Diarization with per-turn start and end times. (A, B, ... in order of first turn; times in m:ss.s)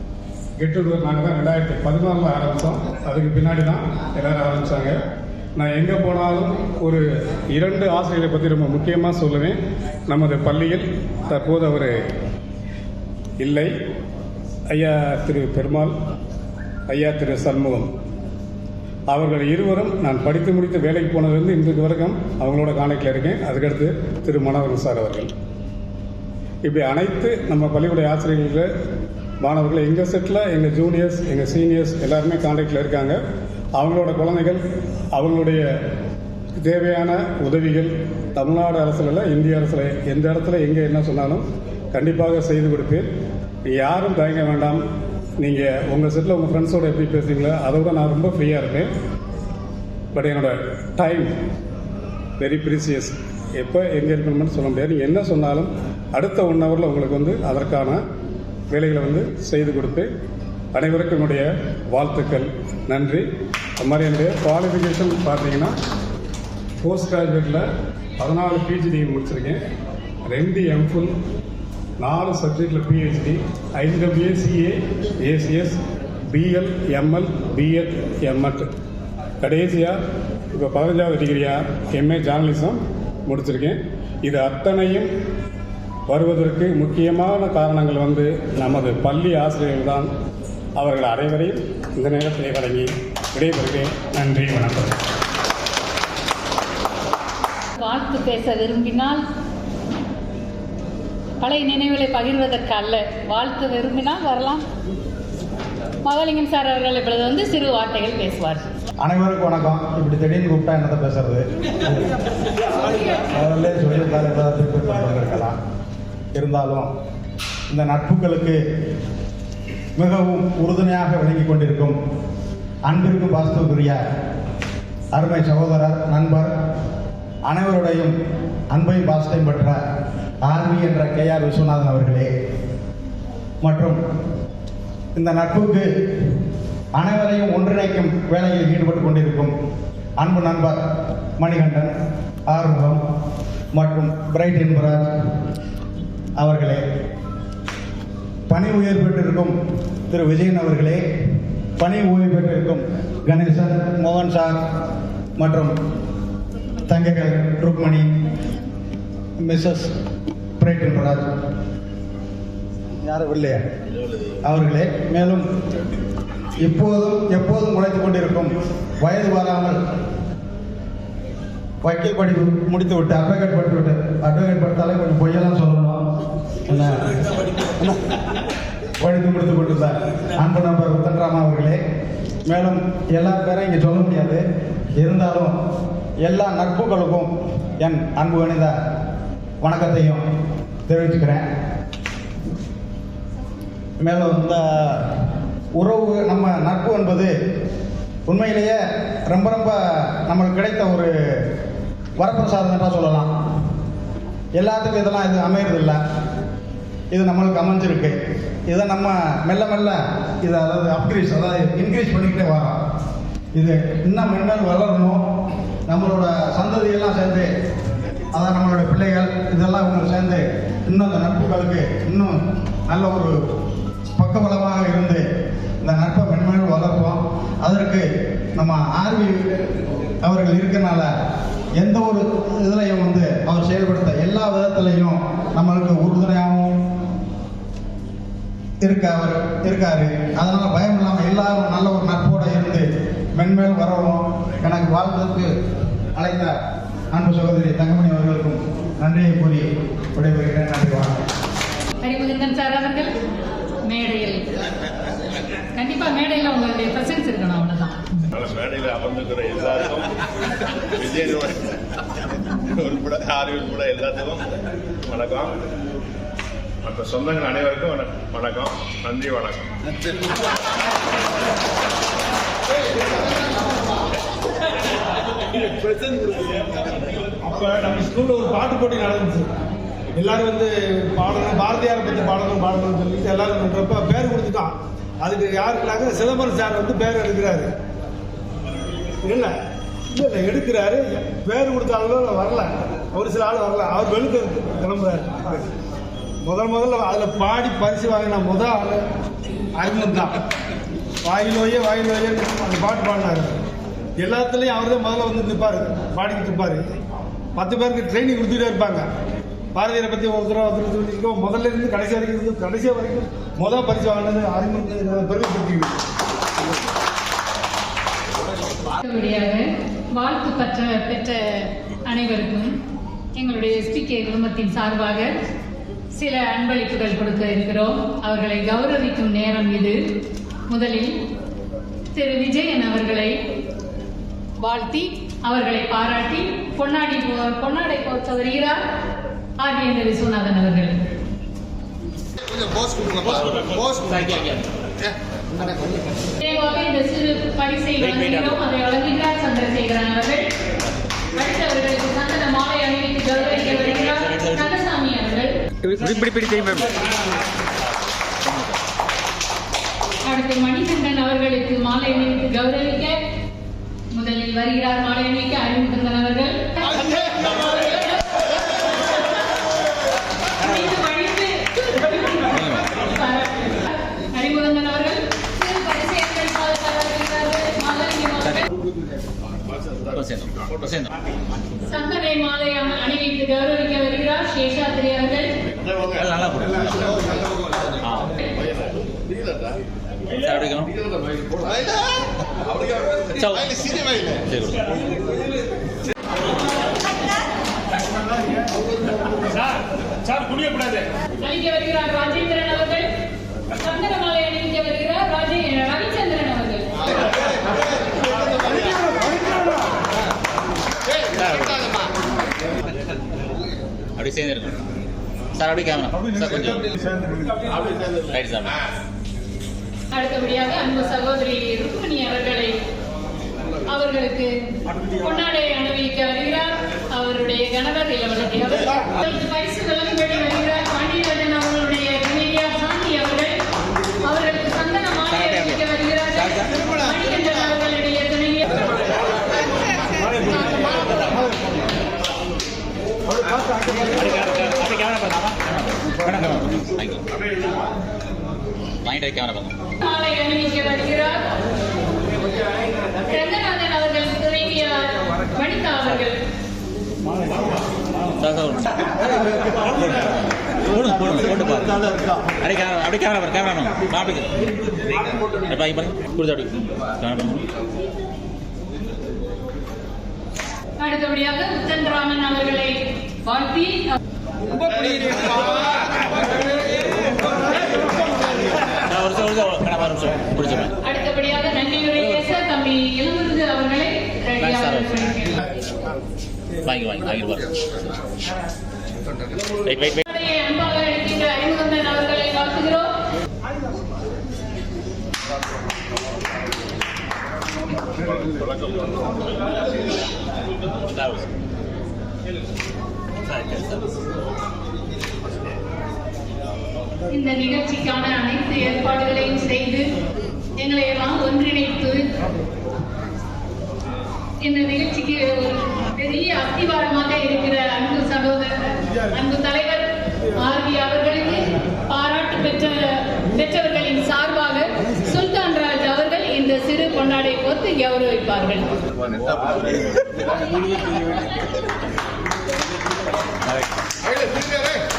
0:00.6-0:05.0 A
0:05.6-0:12.0 A
0:13.4-0:13.7 A
0:14.7-0:15.9 A
0:16.9-0:17.9 A
0:19.1-0:25.3 A
0:26.6-0:28.7 A
0:29.4-0:33.2 A
0:33.8-0:34.6 A
0:35.1-0:35.7 A
0:36.6-0:43.1 A
0:43.6-0:44.8 A
0:45.4-0:48.9 A
0:50.1-0:51.3 A
0:52.4-0:58.0 A
0:58.7-1:00.1 A
1:00.7-1:03.2 A
1:03.8-1:05.7 A
1:06.8-1:07.6 A
1:08.2-1:09.6 A
1:10.2-1:11.1 A
1:12.0-1:15.8 A
1:16.3-1:18.7 A
1:19.4-1:20.0 A
1:20.5-1:25.1 A
1:26.1-1:30.1 A
1:30.8-1:35.0 A
1:37.8-1:39.2 B
1:41.4-1:44.6 B
1:46.0-1:48.7 B
1:49.0-1:52.1 C
1:53.3-1:55.6 C
1:56.3-1:56.9 C
1:57.7-1:58.6 C
2:00.0-2:02.0 C
2:02.9-2:04.0 C
2:05.1-2:06.5 C
2:07.4-2:08.2 C
2:08.7-2:09.8 C
2:10.4-2:12.3 C
2:13.6-2:14.0 C
2:15.1-2:16.4 C
2:16.9-2:19.5 C
2:20.2-2:21.9 C
2:22.5-2:23.0 C
2:23.7-2:25.1 C
2:26.4-2:26.8 C
2:28.5-2:29.6 C
2:30.1-2:31.0 C
2:31.8-2:34.7 C
2:35.4-2:35.8 C
2:36.9-2:38.2 C
2:39.4-2:39.9 C
2:40.6-2:41.3 C
2:43.0-2:43.6 C
2:44.4-2:45.5 C
2:46.6-2:49.8 C
2:51.8-2:56.0 C
2:56.7-2:57.2 C
2:57.7-2:58.1 C
2:59.0-3:01.8 C
3:02.5-3:04.4 C
3:05.0-3:05.5 C
3:06.2-3:08.8 C
3:09.6-3:10.2 C
3:10.9-3:11.5 C
3:14.0-3:15.0 C
3:15.8-3:17.3 C
3:18.3-3:21.5 C
3:22.2-3:23.3 C
3:24.5-3:26.0 C
3:27.1-3:32.8 C
3:33.5-3:35.3 C
3:35.9-3:37.5 C
3:38.3-3:43.4 C
3:44.1-3:45.2 C
3:45.8-3:49.6 C
3:50.2-3:51.1 C
3:51.8-3:56.9 C
3:58.8-4:05.5 C
4:06.2-4:06.6 C
4:07.1-4:11.2 C
4:12.0-4:13.1 B
4:13.9-4:14.4 B
4:15.8-4:18.0 B
4:18.3-4:20.1 D
4:20.9-4:21.8 D
4:22.7-4:25.6 D
4:26.8-4:29.8 D
4:37.4-4:39.5 E
4:40.2-4:47.7 E
4:49.2-4:49.5 E
4:50.1-4:55.6 E
4:56.4-4:59.0 E
4:59.8-5:00.3 E
5:01.2-5:03.6 E
5:04.2-5:06.8 E
5:07.6-5:09.0 E
5:09.8-5:16.0 E
5:19.0-5:19.6 B
5:20.2-5:22.8 B
5:23.4-5:25.3 B
5:26.2-5:30.0 B
5:30.7-5:31.1 B
5:32.1-5:33.3 B
5:34.6-5:38.8 B
5:39.6-5:40.9 B
5:42.4-5:44.4 F
5:44.1-5:44.7 G
5:45.0-5:45.8 F
5:46.4-5:50.5 B
5:48.0-5:48.6 G
5:51.4-5:55.5 B
5:53.5-5:54.7 G
5:55.8-5:57.1 G
5:57.8-5:58.8 G
6:00.3-6:03.2 B
6:04.1-6:09.2 B
6:10.6-6:18.6 B
6:12.5-6:12.9 G
6:20.1-6:21.1 G
6:21.9-6:25.5 B
6:26.0-6:27.4 G
6:28.0-6:28.3 G
6:30.3-6:30.9 G
6:31.6-6:32.2 F
6:33.3-6:33.9 G
6:33.9-6:34.4 F
6:34.5-6:34.9 G
6:40.3-6:41.0 G
6:41.4-6:43.1 B
6:43.7-6:46.9 B
6:47.2-6:48.9 F
6:51.1-6:52.1 F
6:54.2-6:54.8 G
6:55.6-6:56.8 G
6:58.2-6:58.8 G
7:00.1-7:02.7 B
7:03.9-7:04.5 B
7:05.1-7:13.6 B
7:14.2-7:19.0 B
7:15.3-7:15.8 G
7:16.3-7:16.7 G
7:20.2-7:21.4 G
7:23.8-7:27.2 G
7:29.0-7:29.8 G
7:30.0-7:31.5 B
7:33.2-7:36.3 B
7:38.4-7:47.6 G
7:51.0-7:54.2 B
7:54.9-7:55.4 B
7:59.0-8:00.9 G
8:01.0-8:05.6 B
8:04.6-8:05.5 G
8:06.8-8:08.1 G
8:09.8-8:10.2 G
8:10.2-8:13.1 B
8:18.1-8:19.5 D
8:21.1-8:21.4 G
8:23.5-8:24.0 G
8:27.3-8:30.0 B
8:30.8-8:32.2 B
8:34.6-8:48.9 B
8:54.4-8:55.0 F